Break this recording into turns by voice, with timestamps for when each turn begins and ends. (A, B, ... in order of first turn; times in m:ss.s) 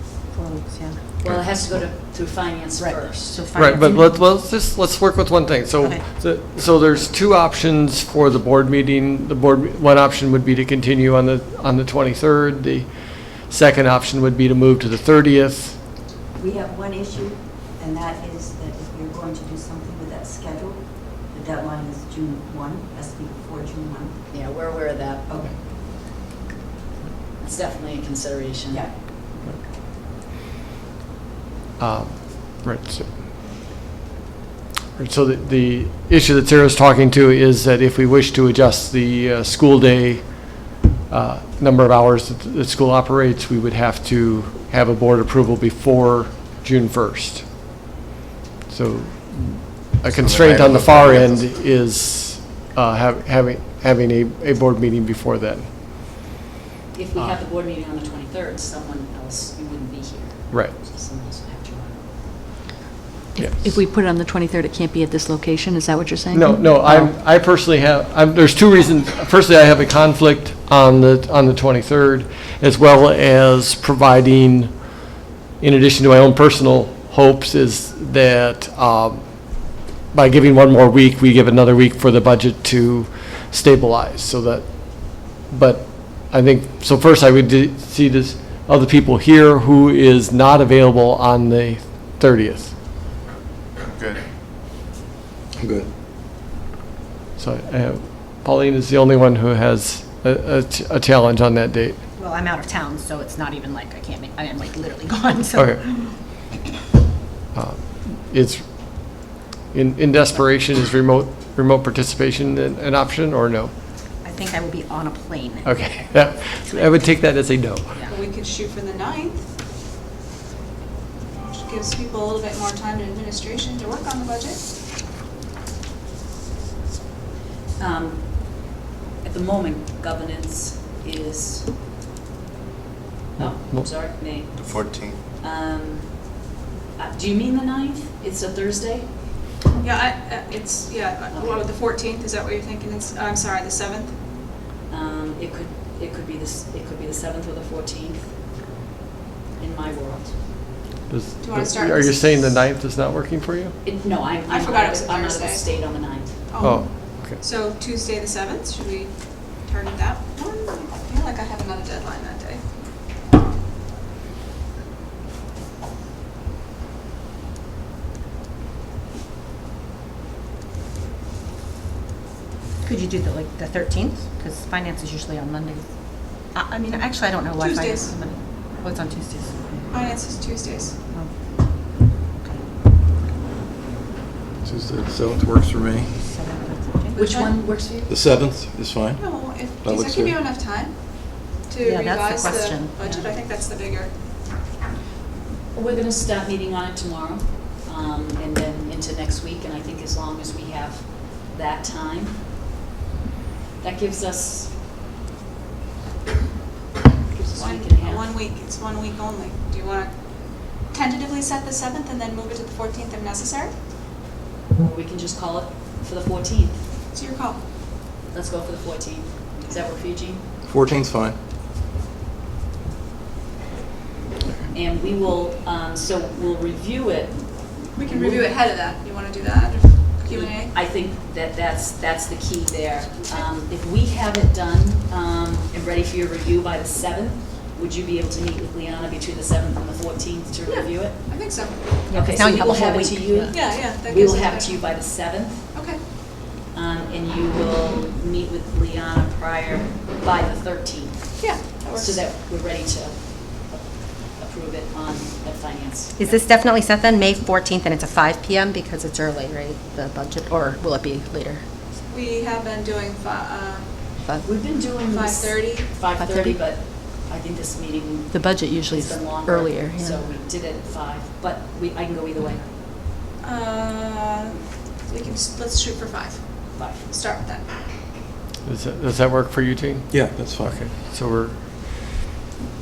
0:00.3-0:01.1 A
0:01.2-0:03.6 B
0:01.2-0:01.8 C
0:02.8-0:04.2 A
0:03.5-0:15.8 C
0:05.8-0:06.0 A
0:16.4-0:18.6 D
0:18.2-0:20.7 A
0:20.0-0:21.8 D
0:21.4-0:24.1 A
0:22.3-0:23.0 D
0:23.7-0:24.1 D
0:24.3-0:25.3 B
0:27.4-0:28.9 B
0:31.8-0:33.3 C
0:35.0-0:47.6 C
0:48.7-0:55.7 C
0:50.0-0:51.5 E
0:56.9-1:02.1 B
1:00.5-1:00.8 C
1:03.3-1:07.1 F
1:03.4-1:03.6 C
1:06.3-1:15.0 C
1:15.6-1:32.7 C
1:33.9-1:34.2 E
1:35.6-1:35.9 G
1:37.4-1:42.0 C
1:42.2-1:46.1 A
1:45.5-1:45.9 C
1:47.5-1:53.7 C
1:54.2-1:56.9 A
1:55.6-1:58.0 C
1:58.1-1:59.5 H
2:01.4-2:04.6 H
2:07.8-2:11.7 B
2:13.4-2:16.4 B
2:13.4-2:13.9 C
2:14.5-2:15.2 E
2:16.9-2:19.4 B
2:19.8-2:24.2 H
2:21.3-2:21.7 B
2:24.9-2:28.4 B
2:29.6-2:30.4 B
2:31.1-2:33.8 C
2:31.4-2:32.5 H
2:33.8-2:36.8 B
2:34.4-2:42.6 H
2:36.6-2:37.4 C
2:52.8-3:00.0 A
2:57.6-2:58.1 H
2:59.9-3:00.9 H
3:04.6-3:06.1 G
3:06.2-3:07.4 A
3:07.1-3:08.1 B
3:07.2-3:07.7 H
3:08.1-3:10.4 G
3:09.2-3:14.1 H
3:11.8-3:13.3 A
3:15.7-3:22.5 B
3:23.8-3:24.7 B
3:27.3-3:28.3 B
3:27.5-3:33.7 H
3:34.8-3:36.9 B
3:37.1-3:37.6 H
3:38.3-3:40.5 B
3:40.6-3:41.4 G
3:44.7-3:48.5 B
3:47.9-3:50.7 H
3:50.3-4:05.7 B
4:00.7-4:02.1 H
4:02.1-4:03.5 A
4:03.5-4:05.1 H
4:05.7-4:06.0 H
4:06.6-4:16.4 B
4:11.4-4:12.2 H
4:16.2-4:21.6 A
4:22.1-4:23.9 H
4:24.4-4:32.7 B
4:25.0-4:26.0 H
4:26.2-4:26.6 A
4:28.3-4:30.2 A
4:28.6-4:29.0 F
4:33.4-4:37.7 H
4:36.7-4:37.1 B
4:38.6-4:42.2 C
4:40.1-4:40.8 G